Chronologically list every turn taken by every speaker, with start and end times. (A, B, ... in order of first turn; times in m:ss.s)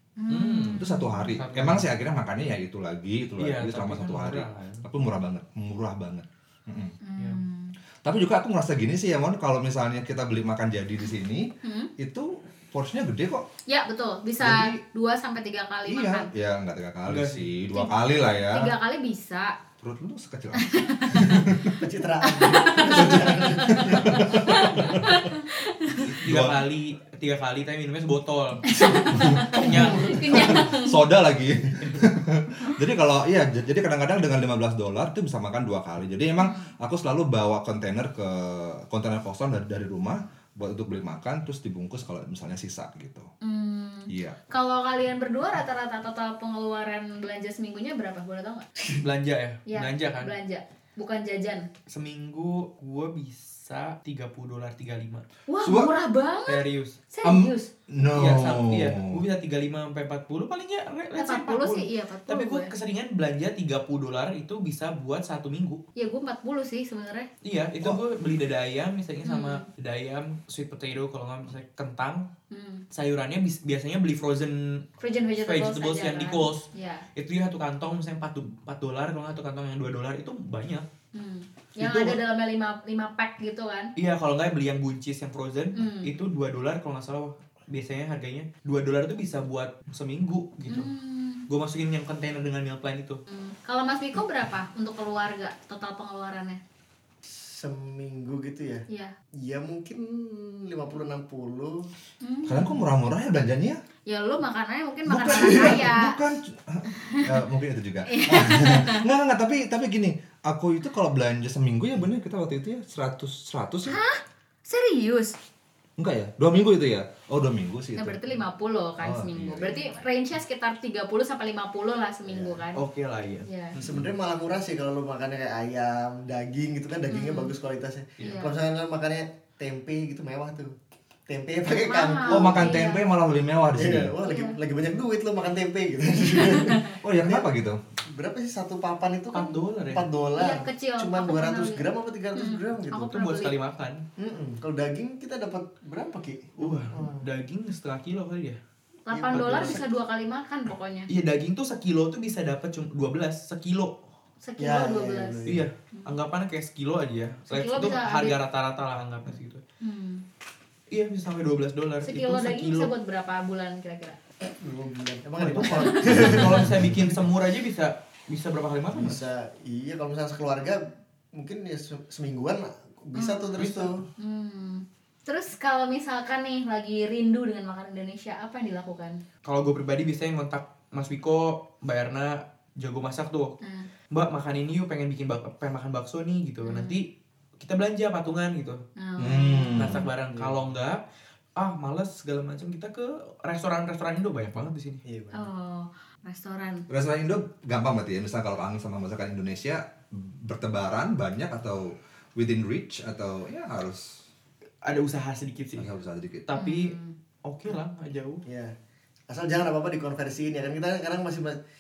0:00.2-0:01.1 A
0:00.3-0:01.9 B
0:00.7-0:06.9 C
0:03.4-0:04.8 B
0:07.0-0:07.7 A
0:07.2-0:07.4 B
0:08.0-0:13.4 C
0:11.6-0:11.9 A
0:13.7-0:16.3 A
0:14.4-0:14.8 C
0:15.9-0:18.7 C
0:17.0-0:17.5 B
0:18.5-0:19.6 A
0:19.8-0:21.7 C
0:20.5-0:26.1 A
0:21.4-0:24.9 D
0:22.9-0:25.3 C
0:26.0-0:30.5 B
0:26.2-0:26.6 C
0:28.6-0:31.0 A
0:28.7-0:30.4 D
0:29.1-0:29.6 C
0:30.3-0:43.3 C
0:36.4-0:36.7 A
0:43.4-0:48.6 A
0:44.1-0:44.4 C
0:49.0-0:50.3 B
0:49.7-0:51.7 A
0:51.9-0:55.2 B
0:55.5-0:57.7 A
0:55.6-0:55.9 C
0:56.5-0:57.0 B
0:57.2-0:59.2 C
0:58.1-1:05.8 B
1:01.2-1:02.7 A
1:06.0-1:07.3 A
1:07.4-1:12.3 B
1:09.2-1:09.7 A
1:12.5-1:12.8 A
1:12.9-1:14.8 B
1:15.0-1:17.0 A
1:15.4-1:20.8 B
1:21.1-1:23.9 A
1:21.8-1:22.2 B
1:24.0-1:30.9 B
1:25.7-1:26.1 A
1:30.7-1:31.4 A
1:31.5-1:33.2 B
1:33.3-1:36.6 A
1:37.2-1:38.8 D
1:38.9-1:39.1 A
1:39.4-1:41.9 D
1:42.2-1:42.8 A
1:42.4-1:43.8 C
1:44.1-1:46.2 A
1:45.0-1:54.0 C
1:45.3-1:45.8 D
1:46.9-1:47.4 A
1:48.0-1:49.0 A
1:53.9-1:55.4 A
1:56.0-1:58.2 C
1:58.0-2:02.8 A
1:59.0-1:59.9 C
2:02.2-2:02.6 D
2:02.7-2:04.0 B
2:03.4-2:03.8 A
2:03.8-2:10.7 D
2:07.1-2:07.5 A
2:08.2-2:08.5 A
2:11.3-2:12.9 D
2:11.7-2:13.0 A
2:12.2-2:14.1 C
2:13.8-2:17.5 D
2:14.2-2:14.6 A
2:16.4-2:17.0 A
2:17.0-2:17.8 C
2:18.1-2:23.1 D
2:19.3-2:20.1 B
2:20.4-2:23.5 A
2:23.0-2:24.0 B
2:24.2-2:27.2 D
2:26.6-2:28.6 B
2:29.0-2:31.1 A
2:29.1-2:29.8 D
2:29.3-2:29.8 B
2:31.1-2:34.1 B
2:34.4-2:36.1 A
2:34.6-2:35.7 D
2:35.4-2:39.6 B
2:37.5-2:38.4 A
2:39.8-2:40.2 A
2:40.9-2:42.9 B
2:42.0-2:44.2 A
2:44.5-2:46.7 D
2:45.4-2:49.2 B
2:45.7-2:46.4 A
2:48.9-2:54.0 D
2:53.1-2:53.6 A
2:53.6-2:53.9 B
2:54.2-2:59.2 A
2:59.4-3:03.5 B
3:03.6-3:03.9 A
3:04.1-3:08.8 B
3:06.6-3:07.0 A
3:09.0-3:10.0 A
3:09.2-3:10.1 C
3:09.7-3:11.0 B
3:10.3-3:10.6 D
3:11.6-3:15.0 B
3:15.0-3:15.5 D
3:15.3-3:16.9 A
3:16.9-3:24.2 C
3:24.8-3:25.9 B
3:25.8-3:26.4 C
3:26.5-3:28.4 B
3:26.5-3:27.1 A
3:28.4-3:28.7 D
3:29.3-3:31.6 D